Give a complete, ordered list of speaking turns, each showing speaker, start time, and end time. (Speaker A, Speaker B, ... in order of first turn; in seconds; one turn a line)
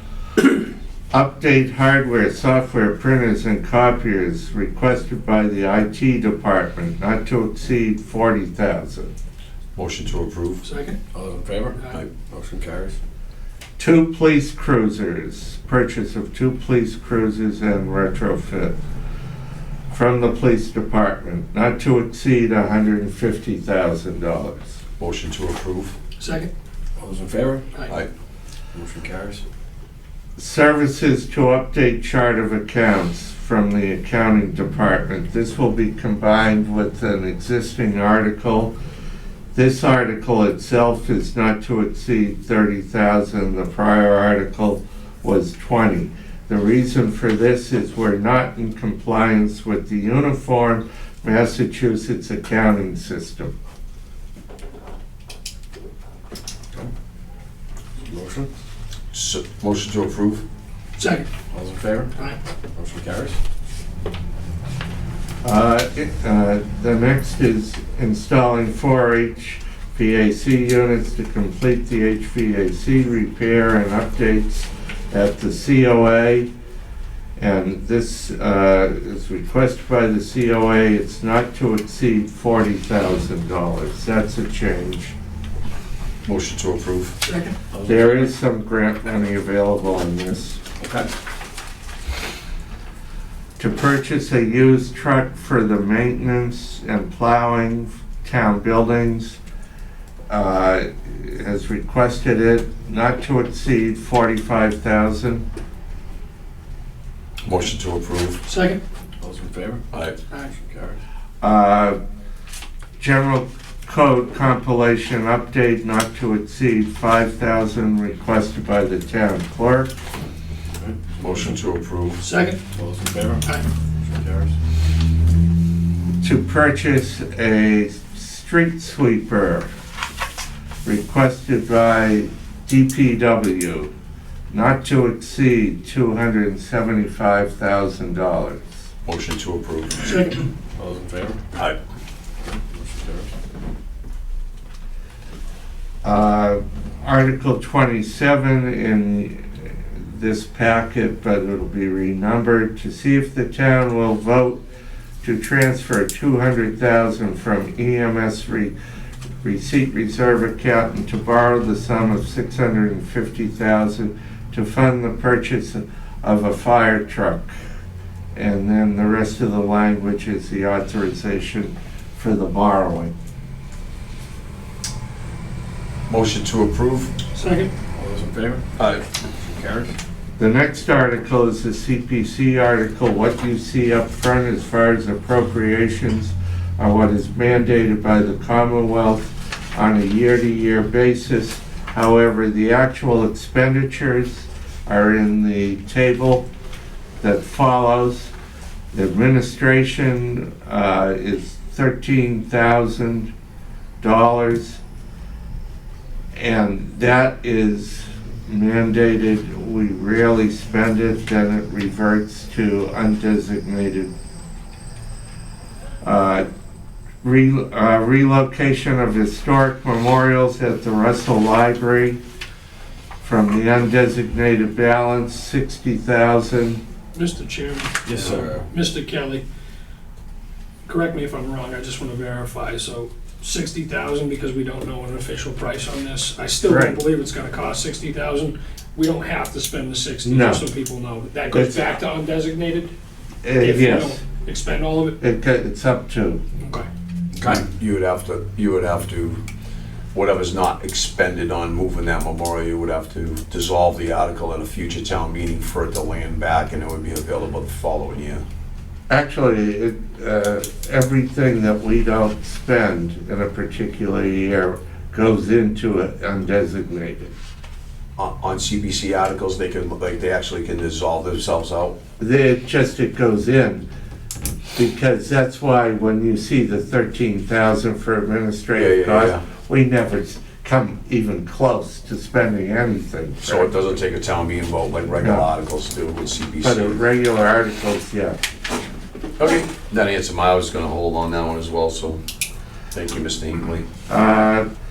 Speaker A: 1.1-9.1
Speaker B: 9.8-10.6
Speaker C: 10.6-11.0
Speaker D: 11.1-13.0
Speaker A: 13.8-18.7
Speaker A: 19.9-24.7
Speaker B: 25.0-25.9
Speaker C: 26.2-26.5
Speaker D: 27.0-27.7
Speaker D: 28.7-29.4
Speaker A: 30.4-38.7
Speaker A: 39.5-53.5
Speaker D: 58.0-58.5
Speaker B: 59.1-60.4
Speaker C: 61.0-61.3
Speaker D: 61.5-62.1
Speaker D: 62.7-63.4
Speaker A: 65.4-76.5
Speaker A: 77.4-85.1
Speaker B: 86.2-87.2
Speaker C: 87.2-87.5
Speaker D: 87.7-88.3
Speaker A: 87.8-90.6
Speaker D: 90.8-91.1
Speaker A: 93.6-99.4
Speaker A: 100.3-105.4
Speaker B: 107.4-108.4
Speaker C: 108.5-108.8
Speaker D: 109.2-109.8
Speaker D: 110.5-111.0
Speaker A: 111.4-112.0
Speaker A: 113.0-119.9
Speaker B: 121.2-122.2
Speaker C: 122.2-122.6
Speaker D: 122.7-124.5
Speaker A: 126.2-129.7
Speaker A: 130.8-133.9
Speaker A: 134.5-138.7
Speaker B: 139.1-140.2
Speaker C: 140.0-140.4
Speaker D: 140.8-141.5
Speaker D: 142.4-143.3
Speaker A: 146.0-154.6
Speaker A: 155.2-158.7
Speaker A: 159.4-167.5
Speaker A: 168.3-173.1
Speaker B: 176.1-177.1
Speaker C: 177.3-177.7
Speaker D: 177.9-178.7
Speaker B: 178.8-179.0
Speaker D: 179.2-179.9
Speaker A: 180.4-196.5
Speaker A: 197.2-198.3
Speaker A: 198.9-203.3
Speaker A: 204.0-204.8
Speaker A: 206.3-214.1
Speaker A: 216.0-216.4
Speaker A: 217.2-222.2
Speaker A: 223.2-226.8
Speaker C: 227.1-229.4
Speaker D: 228.1-228.7
Speaker C: 230.8-242.9
Speaker A: 236.6-237.0
Speaker A: 240.2-240.6
Speaker A: 241.5-241.9
Speaker A: 243.4-244.2
Speaker C: 243.6-245.2
Speaker A: 245.2-246.4
Speaker C: 246.6-246.9
Speaker D: 247.3-247.6
Speaker B: 247.4-249.4
Speaker B: 250.1-258.4
Speaker A: 259.1-267.3
Speaker B: 268.2-272.0
Speaker A: 272.2-273.9
Speaker A: 274.8-283.9
Speaker B: 278.7-279.4
Speaker B: 283.4-287.0
Speaker A: 285.2-285.5
Speaker A: 286.6-288.4
Speaker B: 289.4-292.2
Speaker B: 292.9-293.9
Speaker A: 294.1-294.6